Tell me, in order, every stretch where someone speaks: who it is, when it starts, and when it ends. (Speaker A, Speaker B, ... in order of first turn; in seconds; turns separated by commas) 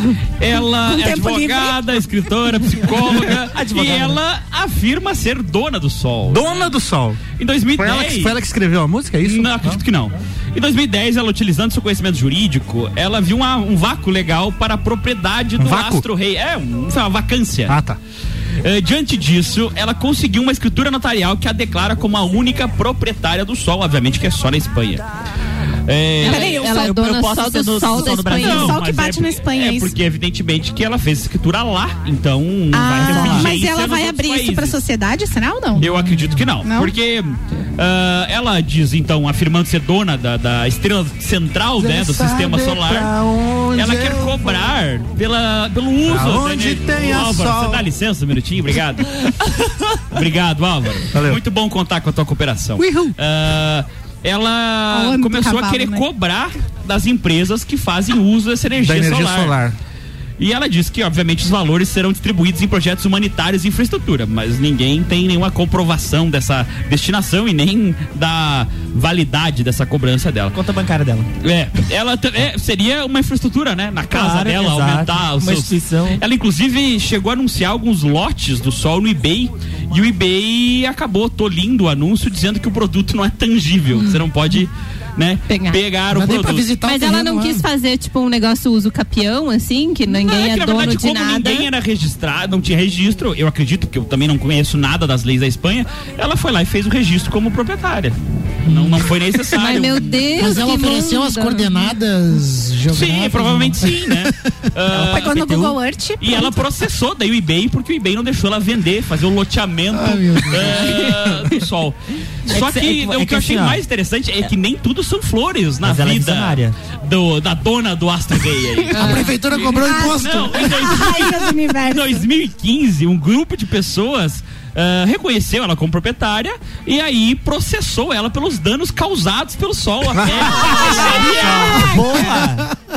Speaker A: 0.4-6.7, Speaker B: 0.8-2.0, Speaker C: 3.5-4.2, Speaker D: 6.2-7.2, Speaker A: 7.3-8.4, Speaker D: 7.8-9.8, Speaker A: 9.2-17.8, Speaker D: 15.6-16.0, Speaker D: 17.7-18.0, Speaker A: 18.6-25.0, Speaker A: 25.9-26.6, Speaker E: 26.2-28.7, Speaker B: 26.2-26.9, Speaker C: 26.2-28.8, Speaker B: 28.0-29.9, Speaker A: 28.4-34.8, Speaker B: 32.7-35.9, Speaker C: 33.0-33.5, Speaker A: 35.8-43.1, Speaker B: 36.6-36.9, Speaker F: 42.5-42.9, Speaker A: 43.7-59.5, Speaker D: 46.1-47.8, Speaker D: 51.1-51.4, Speaker B: 54.9-56.0, Speaker D: 58.8-59.7, Speaker A: 60.4-70.6, Speaker C: 70.5-71.3, Speaker A: 71.4-86.7, Speaker C: 74.1-76.2, Speaker E: 85.5-85.8, Speaker F: 86.1-87.7, Speaker E: 86.8-91.7, Speaker A: 90.1-100.2, Speaker F: 98.6-99.1, Speaker E: 99.5-101.9, Speaker F: 100.3-104.3, Speaker A: 102.9-105.4, Speaker C: 104.9-105.8, Speaker B: 105.1-106.7, Speaker A: 106.2-132.2, Speaker F: 109.9-111.0, Speaker C: 112.5-113.8, Speaker C: 115.8-116.8, Speaker F: 118.9-120.9, Speaker E: 119.0-119.3, Speaker B: 119.7-122.2, Speaker D: 130.2-130.7, Speaker B: 130.5-132.1, Speaker C: 131.1-132.7, Speaker F: 132.0-132.7